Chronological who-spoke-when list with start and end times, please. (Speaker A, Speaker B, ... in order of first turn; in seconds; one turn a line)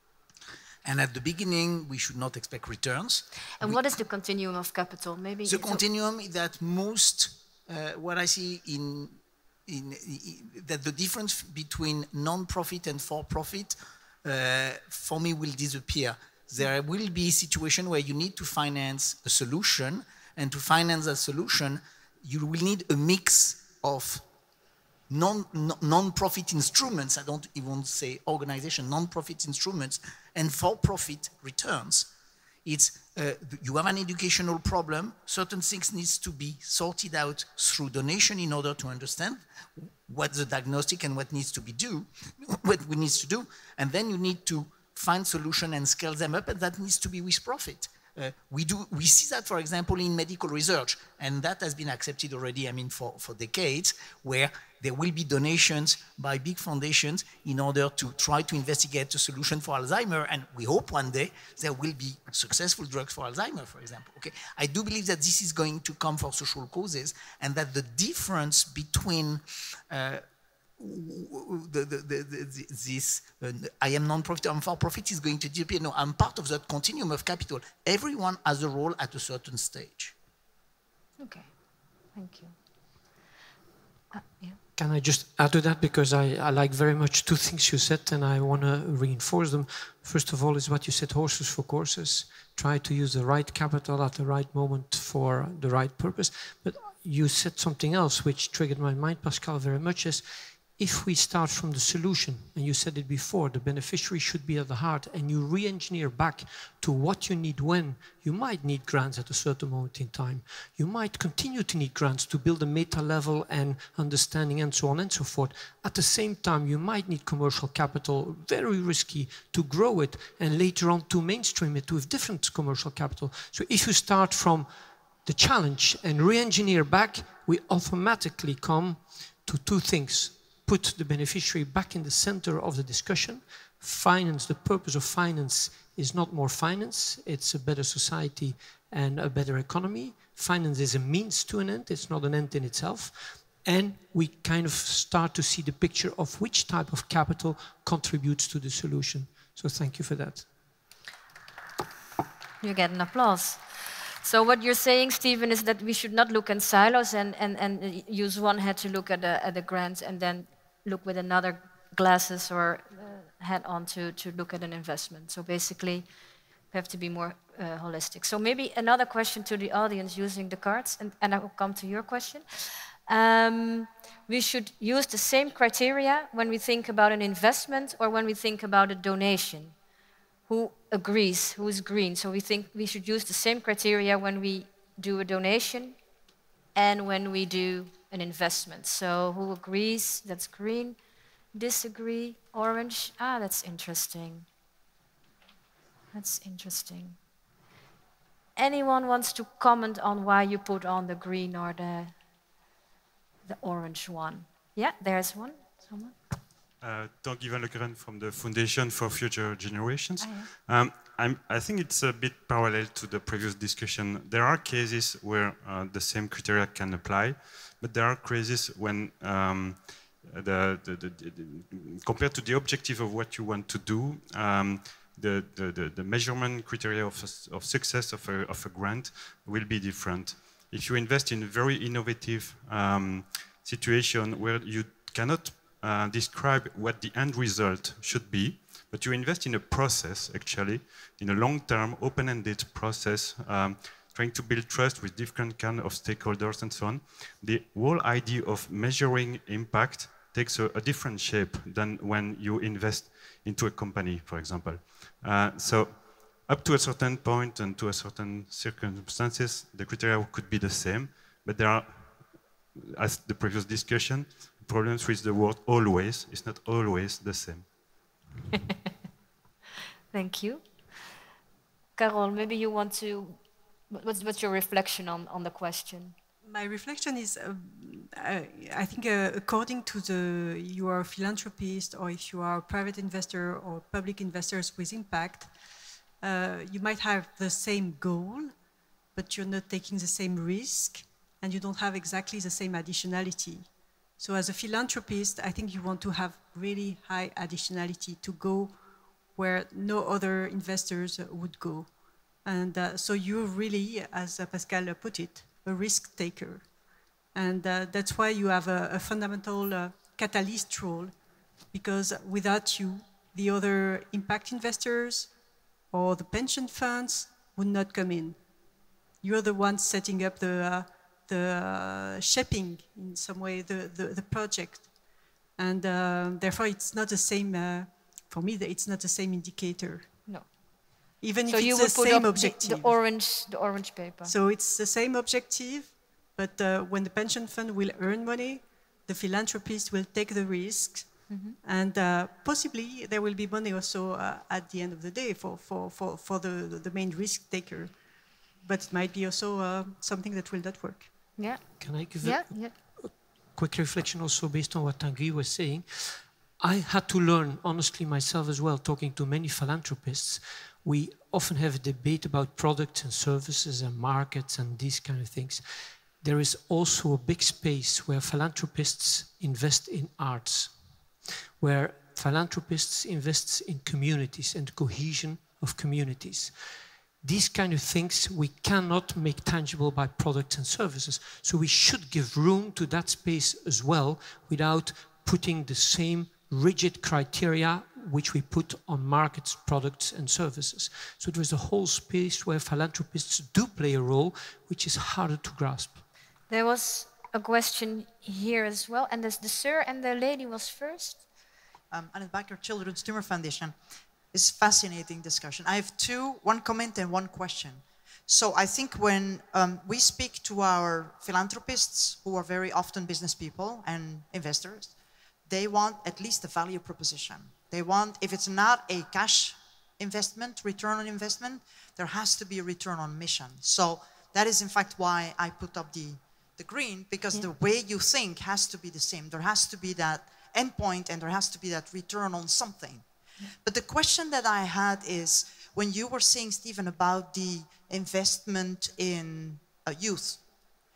Speaker A: 0.8-4.0
Speaker B: 3.5-5.8
Speaker A: 5.4-24.2
Speaker A: 25.1-32.1
Speaker A: 32.6-70.2
Speaker A: 70.8-80.1
Speaker B: 81.2-81.5
Speaker B: 82.1-82.5
Speaker B: 84.1-84.6
Speaker C: 84.8-150.5
Speaker B: 152.6-166.1
Speaker B: 166.7-179.7
Speaker B: 180.5-186.0
Speaker B: 186.7-191.0
Speaker B: 191.5-194.5
Speaker B: 196.1-197.2
Speaker B: 198.6-202.1
Speaker B: 203.4-206.2
Speaker D: 206.8-267.7
Speaker B: 210.2-210.5
Speaker B: 270.1-270.7
Speaker B: 272.0-276.1
Speaker E: 276.4-285.5
Speaker E: 286.2-288.5
Speaker E: 289.1-298.8
Speaker E: 299.3-301.9
Speaker E: 302.4-306.6
Speaker E: 307.3-311.1
Speaker E: 311.7-315.3
Speaker E: 315.9-318.4
Speaker E: 319.2-324.9
Speaker E: 325.6-330.4
Speaker B: 330.2-330.5
Speaker E: 331.2-332.9
Speaker B: 331.4-334.3
Speaker E: 334.2-347.9
Speaker B: 341.3-341.6
Speaker E: 348.6-351.3
Speaker B: 351.4-352.8
Speaker C: 351.8-370.8
Speaker C: 371.6-376.6
Speaker C: 377.2-396.0
Speaker B: 396.5-401.2
Speaker F: 401.9-403.8
Speaker F: 404.3-414.9
Speaker F: 415.4-440.5